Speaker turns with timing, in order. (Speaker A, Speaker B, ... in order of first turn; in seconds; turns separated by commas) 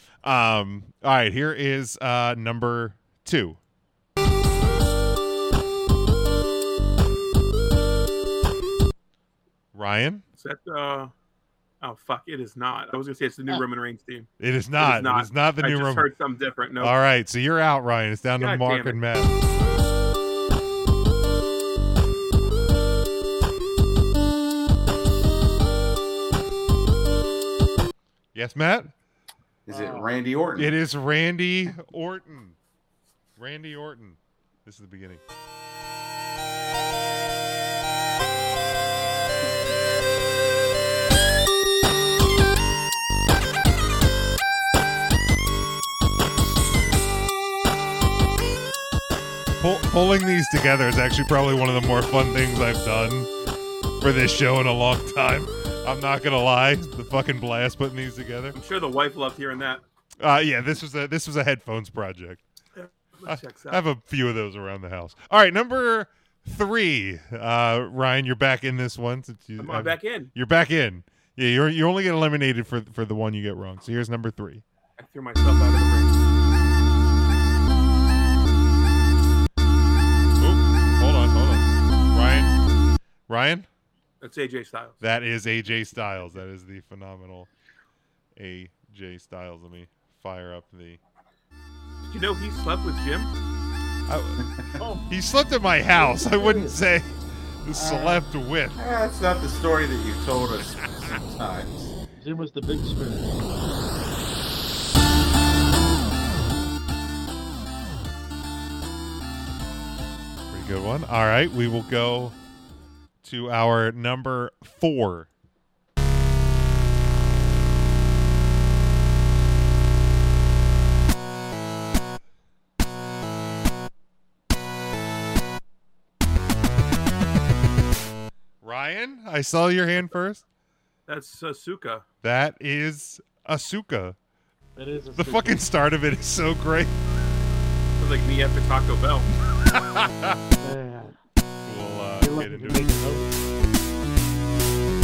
Speaker A: 0.2-3.6, Speaker A: 9.7-10.2, Speaker B: 10.4-11.1, Speaker B: 11.8-16.9, Speaker A: 14.4-16.1, Speaker A: 16.8-19.4, Speaker B: 18.4-19.0, Speaker A: 28.3-28.9, Speaker C: 29.7-30.7, Speaker D: 29.7-30.1, Speaker A: 30.6-32.6, Speaker A: 33.4-35.2, Speaker A: 49.6-53.3, Speaker A: 54.0-58.6, Speaker B: 58.5-59.8, Speaker A: 60.2-62.4, Speaker B: 62.8-63.8, Speaker A: 63.2-74.6, Speaker B: 69.6-70.3, Speaker B: 75.0-76.2, Speaker A: 80.4-82.6, Speaker A: 83.3-83.7, Speaker B: 84.2-85.0, Speaker A: 85.0-87.5, Speaker A: 88.3-91.0, Speaker B: 92.0-93.3, Speaker A: 94.1-94.4, Speaker D: 94.8-95.1, Speaker A: 95.1-98.8, Speaker D: 95.9-96.8, Speaker D: 97.7-98.2, Speaker C: 98.8-101.9, Speaker D: 102.2-103.6, Speaker A: 110.5-112.4, Speaker A: 113.2-115.3, Speaker A: 128.6-130.4, Speaker B: 131.1-132.1, Speaker A: 132.2-134.2, Speaker D: 134.8-135.7, Speaker A: 135.2-136.9, Speaker B: 138.0-139.3, Speaker A: 139.6-140.4, Speaker D: 140.6-141.2, Speaker A: 141.6-143.0, Speaker D: 142.2-143.3